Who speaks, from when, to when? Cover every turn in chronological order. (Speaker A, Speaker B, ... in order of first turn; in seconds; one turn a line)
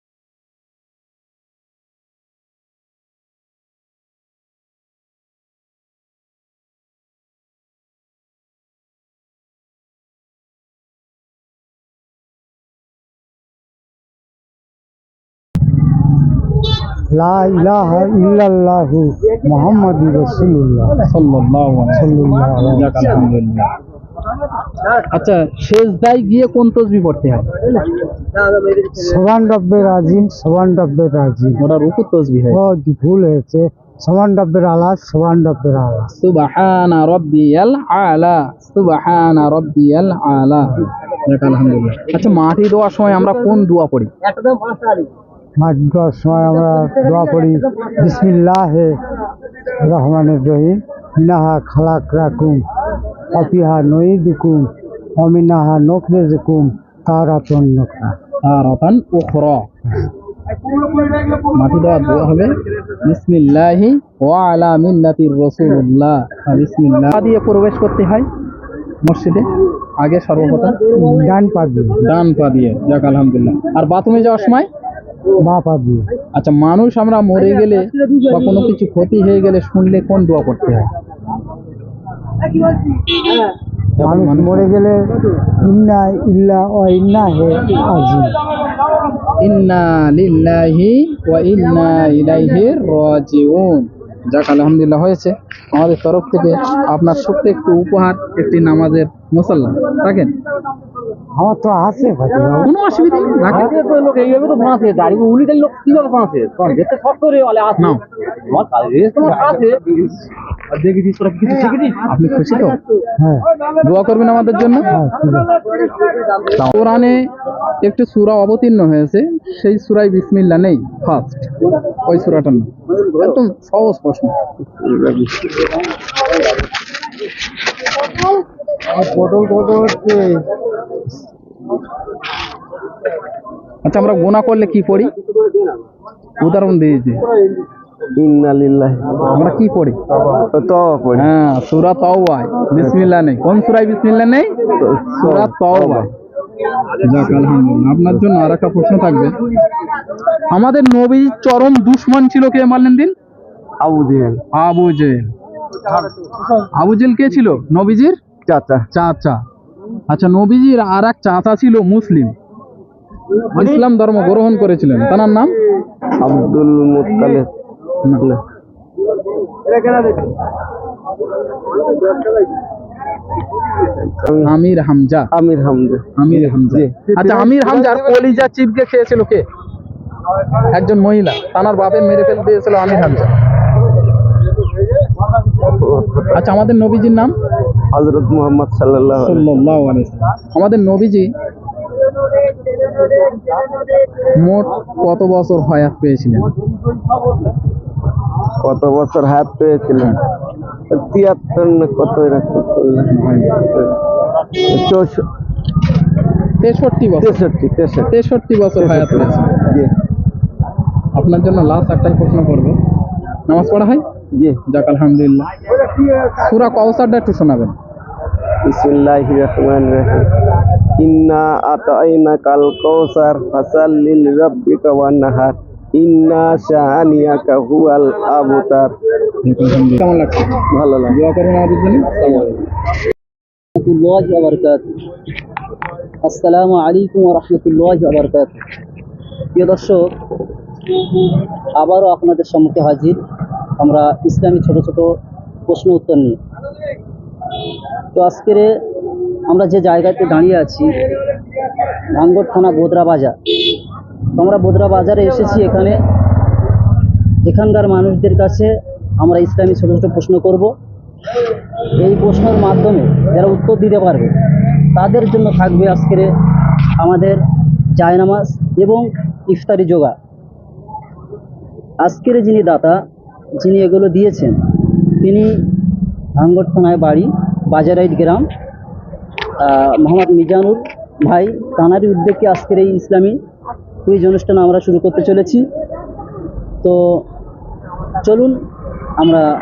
Speaker A: 17.1-21.0
Speaker B: 21.1-23.7
Speaker A: 21.9-23.0
Speaker B: 24.9-27.5
Speaker A: 28.8-31.6
Speaker B: 31.6-32.6
Speaker A: 32.5-36.1
Speaker B: 36.2-44.1
Speaker A: 45.6-48.9
Speaker A: 49.8-52.6
Speaker A: 53.3-58.1
Speaker B: 58.4-59.7
Speaker B: 61.5-62.5
Speaker B: 63.0-68.3
Speaker B: 69.0-70.8
Speaker A: 70.9-72.0
Speaker B: 72.0-74.7
Speaker A: 75.4-76.1
Speaker B: 76.3-80.9
Speaker B: 84.0-84.7
Speaker A: 84.0-85.0
Speaker A: 85.6-88.3
Speaker B: 89.4-100.3
Speaker A: 101.3-102.7
Speaker B: 102.6-103.7
Speaker C: 103.5-107.9
Speaker C: 108.5-110.1
Speaker C: 110.7-112.0
Speaker B: 112.1-112.8
Speaker A: 113.2-113.5
Speaker B: 113.8-114.9
Speaker A: 114.9-115.5
Speaker B: 116.5-117.3
Speaker B: 117.8-124.3
Speaker D: 124.8-125.4
Speaker B: 133.8-135.1
Speaker B: 136.4-137.2
Speaker D: 138.2-139.3
Speaker B: 139.3-140.0
Speaker D: 140.5-141.3
Speaker B: 141.2-144.5
Speaker D: 144.8-146.1
Speaker B: 145.2-146.1
Speaker B: 147.0-149.4
Speaker B: 150.5-153.1
Speaker D: 153.8-154.4
Speaker B: 154.5-155.3
Speaker B: 156.7-158.2
Speaker D: 158.5-158.8
Speaker B: 158.9-159.4
Speaker B: 160.1-162.3
Speaker B: 163.5-165.5
Speaker D: 166.2-167.5
Speaker D: 169.8-170.3
Speaker D: 174.1-174.5
Speaker B: 174.4-175.3
Speaker D: 175.3-177.7
Speaker B: 176.2-179.4
Speaker B: 180.7-183.3
Speaker D: 185.8-186.2
Speaker B: 186.3-187.3
Speaker D: 187.9-189.4
Speaker B: 189.2-191.3
Speaker B: 194.4-196.5
Speaker D: 198.6-200.1
Speaker D: 200.9-203.9
Speaker B: 203.1-203.6
Speaker D: 204.7-205.2
Speaker B: 206.6-207.4
Speaker D: 207.2-208.1
Speaker B: 208.1-209.5
Speaker D: 208.8-209.9
Speaker B: 211.1-212.8
Speaker B: 213.5-214.0
Speaker B: 214.7-215.5
Speaker B: 216.4-217.7
Speaker D: 218.7-220.3
Speaker D: 221.0-228.9
Speaker B: 229.4-232.4
Speaker D: 230.7-231.1
Speaker E: 233.8-234.9
Speaker E: 236.2-238.6
Speaker E: 239.5-240.1
Speaker E: 241.7-243.2
Speaker E: 243.8-245.1
Speaker E: 245.7-246.4
Speaker E: 248.1-248.7
Speaker E: 249.5-251.0
Speaker E: 252.1-253.8
Speaker E: 254.3-255.9
Speaker E: 257.4-260.7
Speaker E: 261.9-267.4
Speaker E: 267.9-270.1
Speaker E: 272.0-273.0
Speaker E: 273.6-275.8
Speaker E: 276.4-278.5
Speaker E: 279.6-283.4
Speaker E: 284.1-285.6
Speaker E: 286.8-287.2
Speaker E: 288.2-288.6
Speaker E: 289.2-289.4